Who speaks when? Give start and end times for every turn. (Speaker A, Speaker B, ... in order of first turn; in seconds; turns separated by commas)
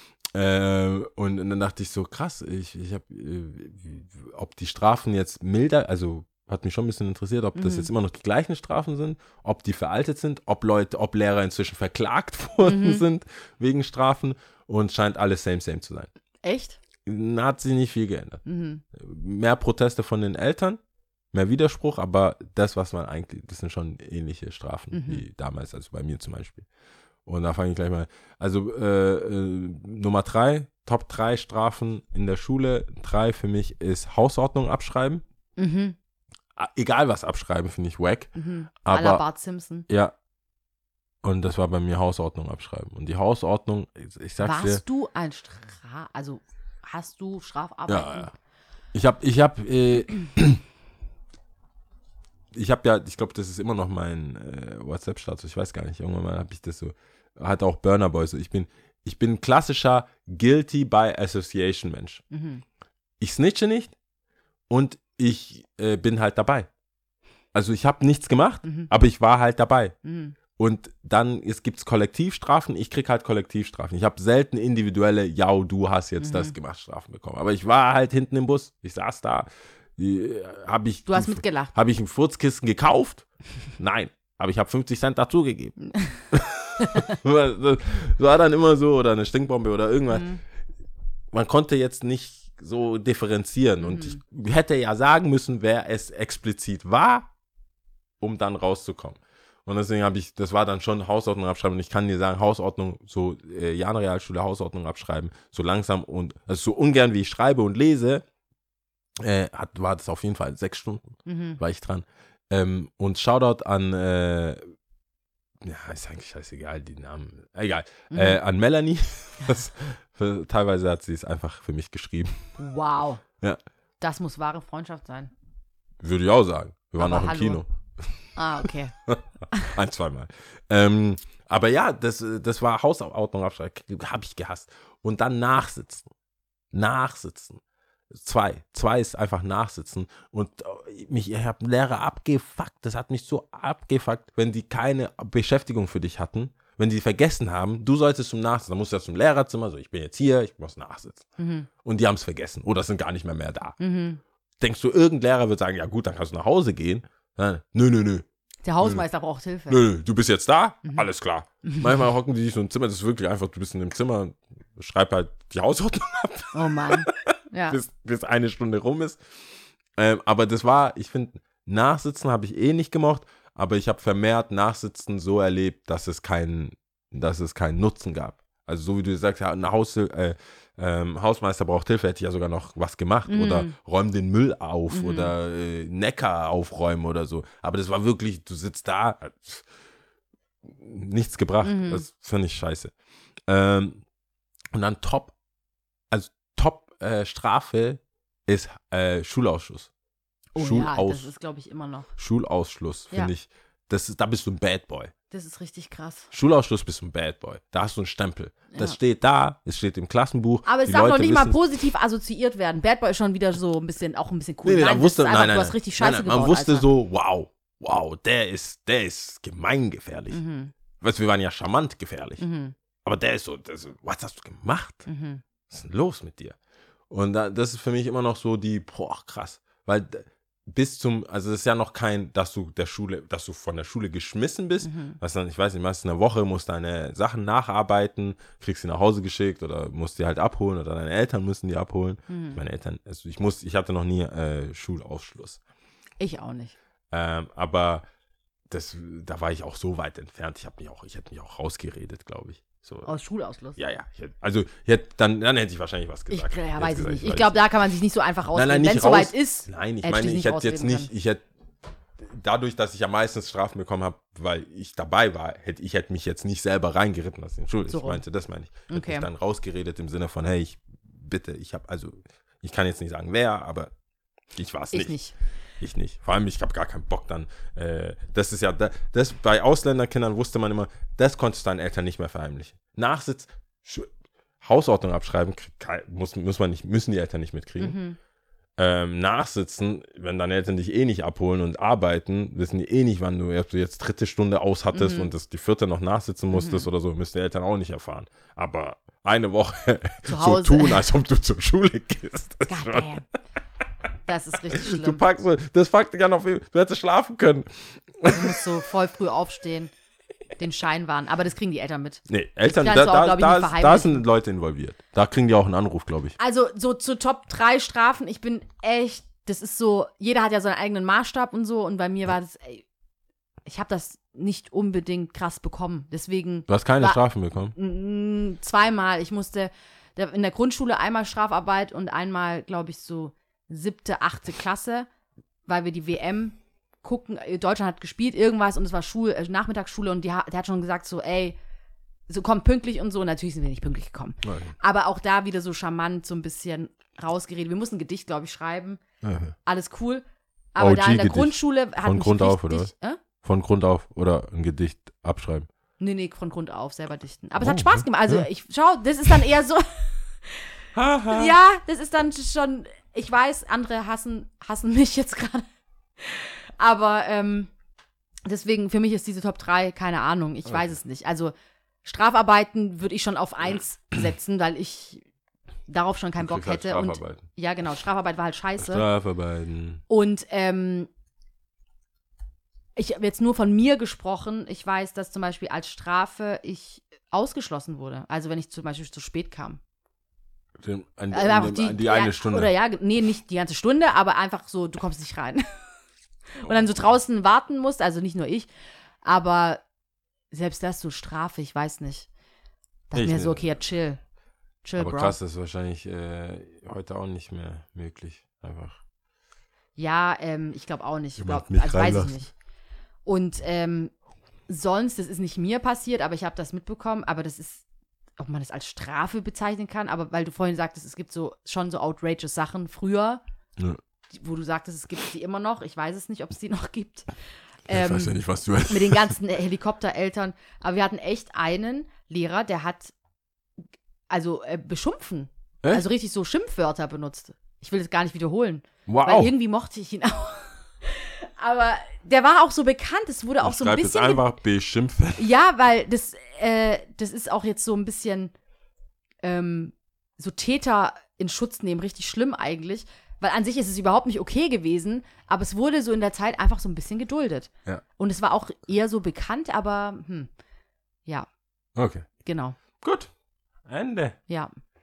Speaker A: 0.3-16.1, Speaker B: 7.5-7.9, Speaker B: 12.6-13.0, Speaker B: 16.4-16.8, Speaker A: 17.1-18.4, Speaker B: 18.4-18.8, Speaker A: 18.9-20.8, Speaker A: 21.3-26.7, Speaker B: 24.9-25.2, Speaker A: 27.3-35.2, Speaker B: 35.6-36.0, Speaker A: 36.6-38.3, Speaker B: 38.4-39.9, Speaker A: 38.8-39.2, Speaker A: 39.9-40.1, Speaker A: 41.2-44.8, Speaker B: 44.4-48.3, Speaker A: 47.9-48.3, Speaker A: 48.9-50.6, Speaker A: 52.5-62.2, Speaker B: 62.3-62.6, Speaker A: 63.2-64.0, Speaker A: 64.7-66.7, Speaker A: 67.5-70.0, Speaker B: 68.6-68.9, Speaker B: 70.0-70.3, Speaker A: 70.6-83.3, Speaker B: 76.2-76.5, Speaker B: 81.1-81.7, Speaker A: 83.8-85.8, Speaker B: 85.9-86.2, Speaker A: 86.3-90.3, Speaker B: 86.8-87.2, Speaker B: 90.1-90.4, Speaker A: 91.3-97.3, Speaker B: 93.8-94.2, Speaker A: 98.2-108.2, Speaker A: 109.2-114.6, Speaker B: 111.3-111.6, Speaker A: 115.6-122.5, Speaker B: 118.1-118.4, Speaker B: 122.6-123.2, Speaker B: 124.0-125.3, Speaker A: 126.0-136.1, Speaker B: 127.0-127.6, Speaker B: 128.4-128.9, Speaker A: 136.7-151.3, Speaker B: 151.4-151.7, Speaker A: 151.8-153.8, Speaker B: 153.8-154.2, Speaker A: 154.6-158.3, Speaker B: 158.6-159.8, Speaker A: 159.7-169.2, Speaker B: 161.6-161.9, Speaker B: 166.5-167.8, Speaker A: 170.0-189.7, Speaker B: 183.3-183.8, Speaker B: 184.9-185.3, Speaker A: 190.6-192.9, Speaker B: 191.6-192.1, Speaker A: 193.5-194.0, Speaker A: 194.7-195.3, Speaker A: 196.1-199.9, Speaker B: 200.6-202.1, Speaker A: 200.6-201.3, Speaker A: 202.2-205.1, Speaker B: 205.3-206.3, Speaker A: 206.3-211.6, Speaker B: 210.7-216.9, Speaker A: 214.7-220.4, Speaker B: 220.3-220.7, Speaker A: 221.0-222.4, Speaker B: 222.4-222.7, Speaker A: 223.0-225.1, Speaker B: 225.1-225.4, Speaker A: 225.7-226.6, Speaker A: 227.1-245.6, Speaker B: 234.8-235.2, Speaker B: 242.3-242.6, Speaker B: 246.2-246.7, Speaker A: 247.1-248.1, Speaker A: 248.7-253.1, Speaker B: 253.1-253.8, Speaker A: 253.8-257.6, Speaker B: 256.3-261.1, Speaker A: 258.5-261.4, Speaker A: 262.2-273.9, Speaker B: 267.9-268.2, Speaker B: 268.9-269.3, Speaker A: 274.6-275.1, Speaker B: 274.9-275.3, Speaker A: 275.8-284.1, Speaker A: 284.6-288.0, Speaker B: 287.8-288.2, Speaker A: 288.8-303.1, Speaker B: 294.9-295.3, Speaker B: 296.5-296.9, Speaker B: 300.3-301.0, Speaker B: 302.7-303.2, Speaker B: 304.3-305.2, Speaker A: 304.7-308.5, Speaker B: 308.3-309.9, Speaker B: 310.6-314.2, Speaker A: 312.3-316.4, Speaker B: 316.4-322.9, Speaker B: 323.7-327.2, Speaker A: 326.7-327.8, Speaker B: 327.8-335.1, Speaker B: 335.7-341.6, Speaker B: 342.3-349.0, Speaker A: 344.4-344.7, Speaker A: 349.2-349.6, Speaker B: 349.6-350.2, Speaker B: 350.8-353.2, Speaker A: 350.8-352.9, Speaker A: 353.4-355.7, Speaker B: 356.0-360.7, Speaker A: 357.6-358.5, Speaker A: 360.9-361.6, Speaker B: 361.3-365.6, Speaker B: 366.2-367.7, Speaker B: 368.4-371.5, Speaker A: 370.7-370.9, Speaker B: 372.1-375.2, Speaker B: 375.9-379.1, Speaker A: 376.4-377.5, Speaker A: 378.8-380.0, Speaker B: 380.1-381.1, Speaker B: 383.0-389.8, Speaker A: 390.8-392.7, Speaker B: 391.3-395.7, Speaker B: 396.5-398.7, Speaker B: 399.2-399.8, Speaker B: 400.5-402.3, Speaker B: 403.1-404.2, Speaker A: 403.1-403.7, Speaker B: 404.8-405.4, Speaker A: 405.0-409.0, Speaker B: 410.0-412.5, Speaker A: 411.4-412.4, Speaker B: 413.3-414.1, Speaker B: 414.7-417.8, Speaker B: 418.4-423.4, Speaker B: 424.3-427.3, Speaker B: 427.9-433.1, Speaker A: 427.9-429.3, Speaker B: 434.3-444.4, Speaker A: 439.1-439.5, Speaker A: 443.6-445.5, Speaker B: 445.4-448.5, Speaker B: 449.4-460.5, Speaker A: 462.0-462.3, Speaker B: 462.4-462.8, Speaker A: 463.0-463.3, Speaker A: 463.9-464.4